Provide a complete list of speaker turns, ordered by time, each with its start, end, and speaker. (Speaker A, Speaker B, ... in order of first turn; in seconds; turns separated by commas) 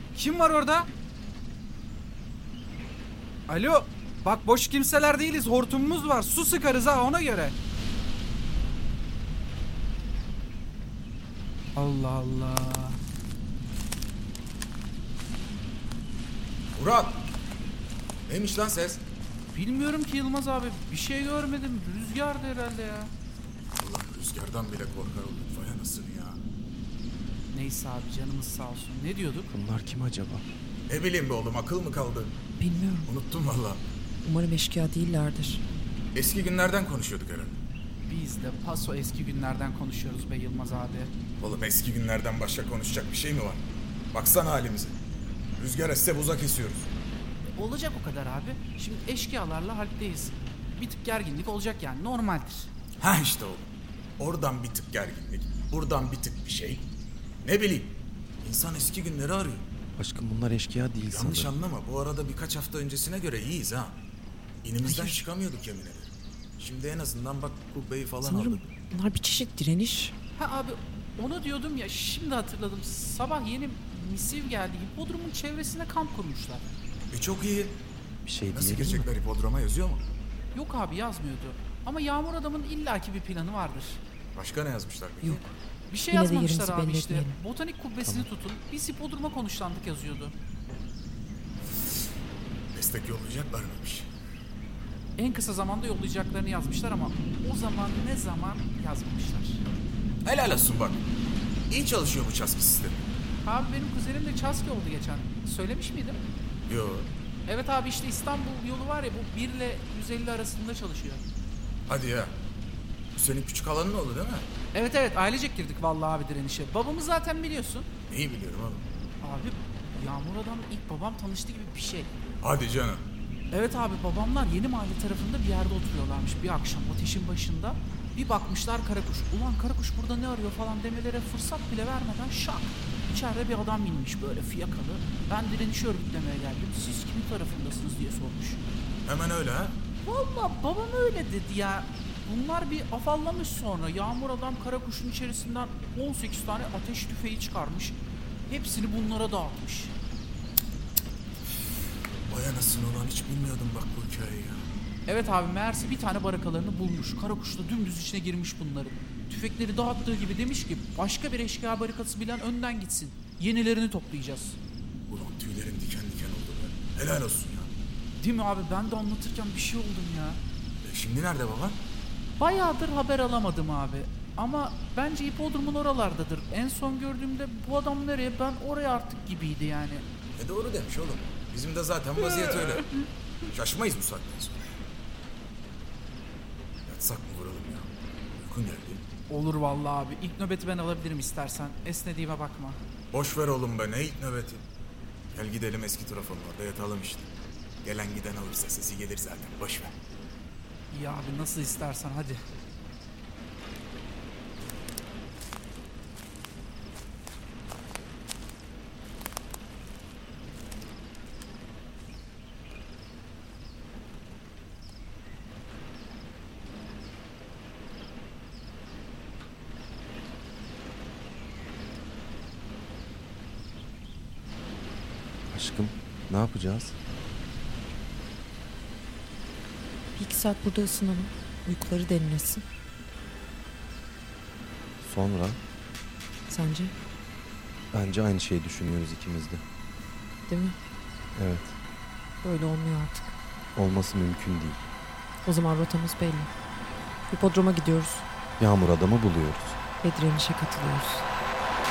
Speaker A: 0.1-0.9, Speaker A: 3.5-7.5, Speaker A: 11.8-13.0, Speaker B: 16.7-17.2, Speaker B: 18.3-19.0, Speaker A: 19.5-23.1, Speaker B: 23.8-26.4, Speaker A: 27.5-29.5, Speaker C: 29.5-30.4, Speaker B: 30.9-32.3, Speaker D: 32.6-33.1, Speaker B: 33.0-33.8, Speaker D: 34.2-35.6, Speaker B: 36.1-37.6, Speaker A: 38.1-41.1, Speaker B: 41.4-44.9, Speaker B: 45.6-46.9, Speaker A: 47.5-52.7, Speaker B: 53.0-53.6, Speaker B: 54.2-56.9, Speaker B: 57.4-59.6, Speaker C: 60.0-61.5, Speaker B: 61.1-64.0, Speaker B: 64.6-68.7, Speaker D: 64.8-65.2, Speaker D: 68.2-70.1, Speaker A: 70.3-76.6, Speaker B: 77.1-77.8, Speaker C: 78.2-79.1, Speaker B: 78.5-80.0, Speaker A: 80.5-84.0, Speaker B: 84.3-85.4, Speaker A: 85.9-90.3, Speaker D: 86.1-87.4, Speaker B: 92.7-94.1, Speaker A: 95.2-99.6, Speaker B: 100.2-101.0, Speaker B: 101.7-103.1, Speaker A: 103.4-106.2, Speaker B: 106.7-107.1, Speaker A: 107.5-111.2, Speaker B: 111.9-112.3, Speaker B: 113.1-114.5, Speaker A: 114.7-117.9, Speaker B: 118.1-118.8, Speaker A: 119.2-122.2, Speaker B: 122.4-123.0, Speaker A: 123.5-138.6, Speaker B: 139.1-139.8, Speaker A: 140.0-149.9, Speaker B: 152.3-154.6, Speaker A: 155.1-164.6, Speaker B: 165.1-167.7, Speaker A: 168.2-170.4, Speaker B: 170.8-171.8, Speaker A: 172.4-180.0, Speaker B: 180.3-182.9, Speaker B: 183.5-184.7, Speaker B: 186.8-189.0, Speaker A: 189.3-192.8, Speaker B: 193.1-194.6, Speaker B: 195.3-197.3, Speaker B: 197.8-199.9, Speaker A: 200.9-202.4, Speaker C: 225.5-226.9, Speaker D: 230.1-232.6, Speaker C: 235.0-235.6, Speaker D: 236.5-236.9, Speaker C: 237.9-239.6, Speaker D: 240.5-240.8, Speaker C: 241.3-241.8, Speaker D: 242.4-243.3, Speaker C: 243.7-244.8, Speaker D: 245.4-246.5, Speaker D: 247.3-248.2, Speaker C: 248.6-249.8, Speaker D: 250.0-251.2